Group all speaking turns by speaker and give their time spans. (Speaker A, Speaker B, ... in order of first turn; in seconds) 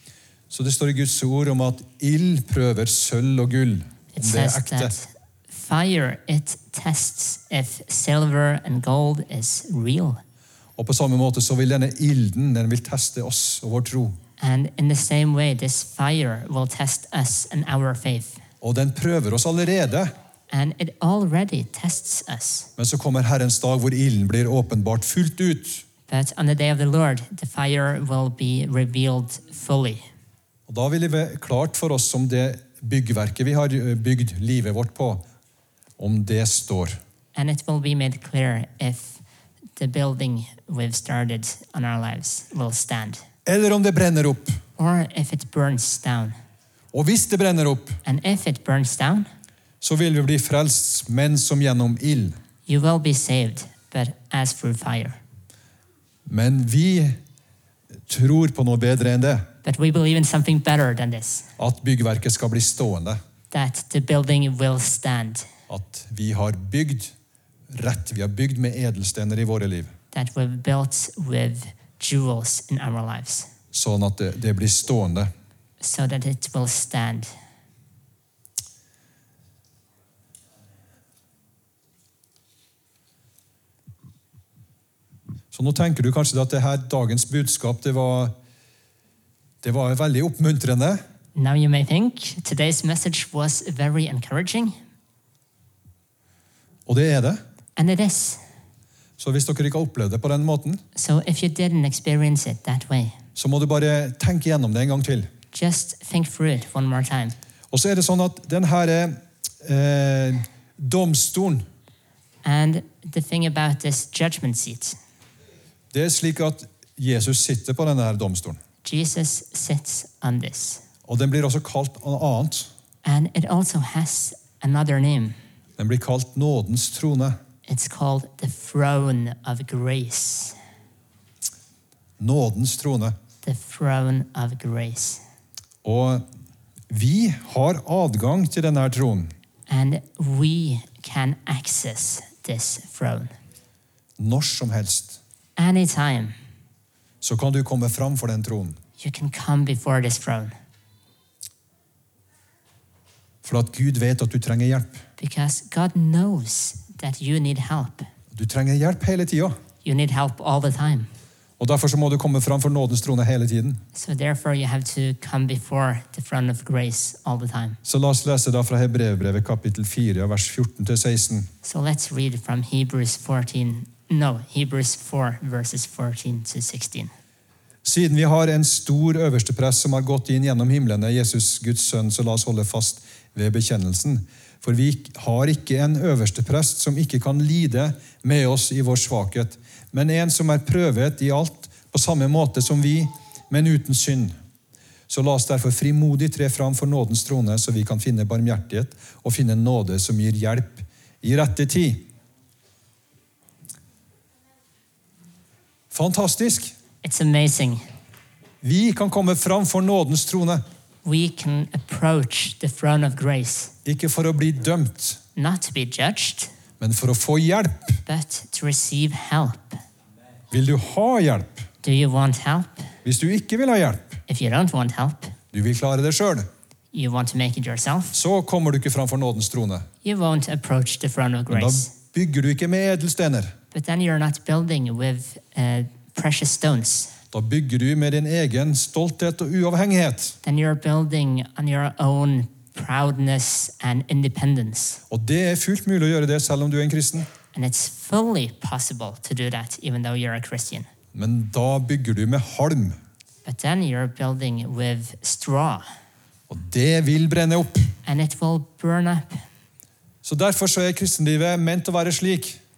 Speaker A: 0.5-4.9, 10.8-14.2, 18.6-20.1, 22.8-25.8, 30.7-35.2, 36.0-37.0, 43.5-44.6, 46.9-48.0, 49.8-52.4, 56.3-57.2, 58.1-59.5, 61.6-63.2, 65.7-67.1, 67.7-69.9, 73.7-75.3, 85.5-88.3, 89.6-91.0, 96.8-97.4, 99.2-100.8, 103.3-105.3, 107.7-111.6, 115.9-118.6, 121.0-122.7, 125.8-127.4, 132.2-133.1, 135.8-136.2, 136.9-139.3, 144.2-145.2, 147.2-148.8, 153.4-155.0, 158.3-159.6, 161.6-163.8, 167.8-171.5, 177.8-194.3, 195.1-202.1, 205.9-206.7, 208.6-210.6, 213.8-215.2, 216.8-218.0, 220.5-221.7, 223.0-224.2, 225.5-226.5, 228.1-229.9, 231.5-233.5, 237.3-240.3, 245.1-247.3, 251.1-253.0, 256.5-257.9, 260.2-262.6
Speaker B: 4.1-10.2, 14.4-18.4, 20.5-22.7, 26.1-30.0, 37.3-39.2, 39.8-43.2, 44.8-46.3, 48.0-49.3, 52.7-55.2, 59.6-61.5, 63.5-65.5, 70.1-73.5, 75.8-77.3, 91.3-94.8, 97.8-98.4, 100.9-103.2, 105.5-107.3, 112.4-115.0, 118.8-120.8, 123.0-125.4, 127.7-130.6, 133.4-135.2, 139.7-143.3, 145.6-146.3, 149.0-150.5, 155.2-158.1, 159.8-161.1, 163.9-167.8, 171.6-177.1, 207.0-207.8, 211.0-213.7, 215.3-216.5, 218.1-219.8, 221.8-222.9, 224.3-225.3, 226.9-228.2, 230.0-231.9, 233.7-237.1, 240.4-245.0, 247.5-250.9, 253.4-255.8, 258.0-259.4